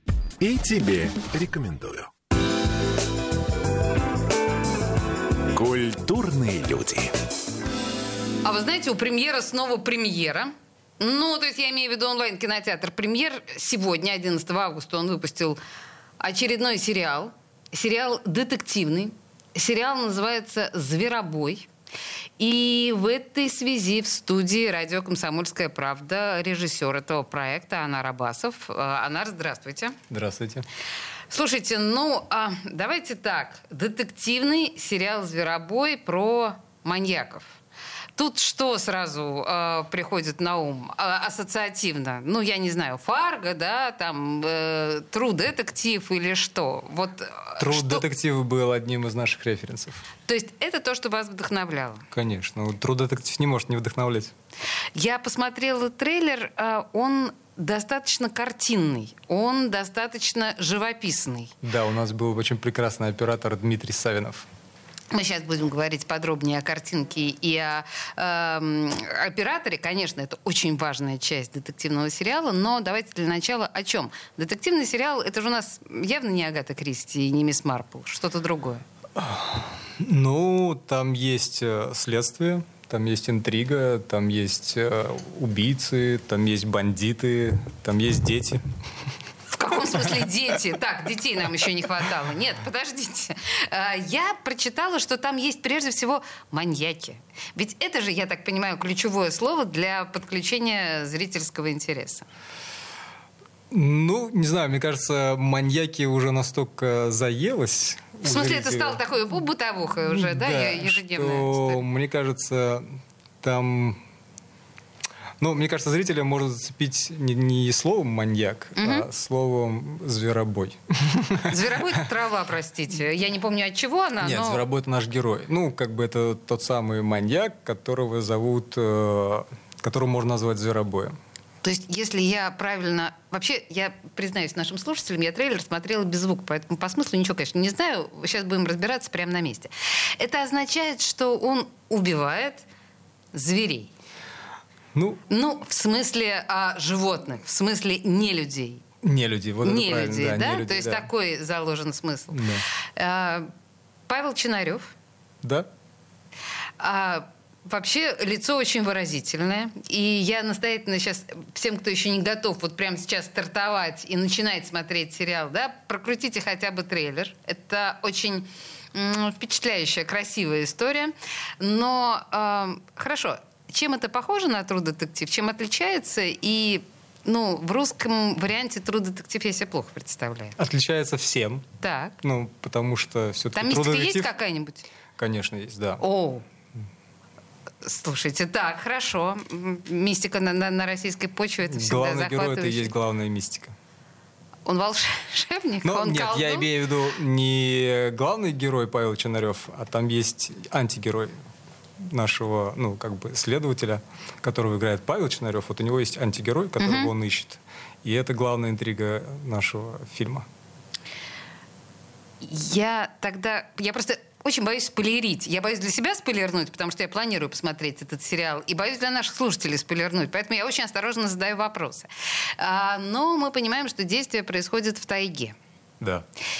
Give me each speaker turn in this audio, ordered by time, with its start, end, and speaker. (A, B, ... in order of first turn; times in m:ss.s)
0:00.4-0:02.1 A
0:05.5-0:07.1 A
0:08.4-0:15.6 B
0:16.2-0:21.7 B
0:22.4-0:30.0 B
0:30.1-0:30.6 C
0:31.3-0:37.6 B
0:38.2-0:48.0 B
0:47.6-0:50.0 C
0:50.3-0:52.0 B
0:52.1-0:54.3 C
0:54.9-1:01.5 B
1:01.6-1:04.5 C
1:05.1-1:18.8 B
1:19.2-1:28.6 C
1:29.5-1:42.2 B
1:43.7-1:49.0 C
1:48.2-1:51.8 B
1:50.1-1:54.0 C
1:55.4-2:02.0 C
1:58.8-1:59.1 B
2:01.5-2:04.6 B
2:04.2-2:11.2 C
2:11.6-2:22.7 B
2:23.3-2:23.9 B
2:24.9-2:25.2 C
2:25.3-2:28.8 B
2:29.0-2:31.1 C
2:29.6-2:32.4 B
2:32.3-2:32.6 C
2:33.0-2:33.5 B
2:34.1-2:34.9 B
2:35.4-2:35.7 C
2:36.8-3:00.6 B
3:00.6-3:01.6 C
3:01.8-3:02.1 B
3:02.2-3:04.3 C
3:03.5-3:04.8 B
3:05.2-3:06.0 C
3:06.0-3:06.4 B
3:07.8-3:12.9 B
3:11.6-3:13.7 C
3:14.6-3:16.7 B
3:15.8-3:21.4 C
3:22.0-3:30.4 C
3:26.8-3:27.1 B
3:32.4-3:42.1 B
3:42.6-3:45.6 B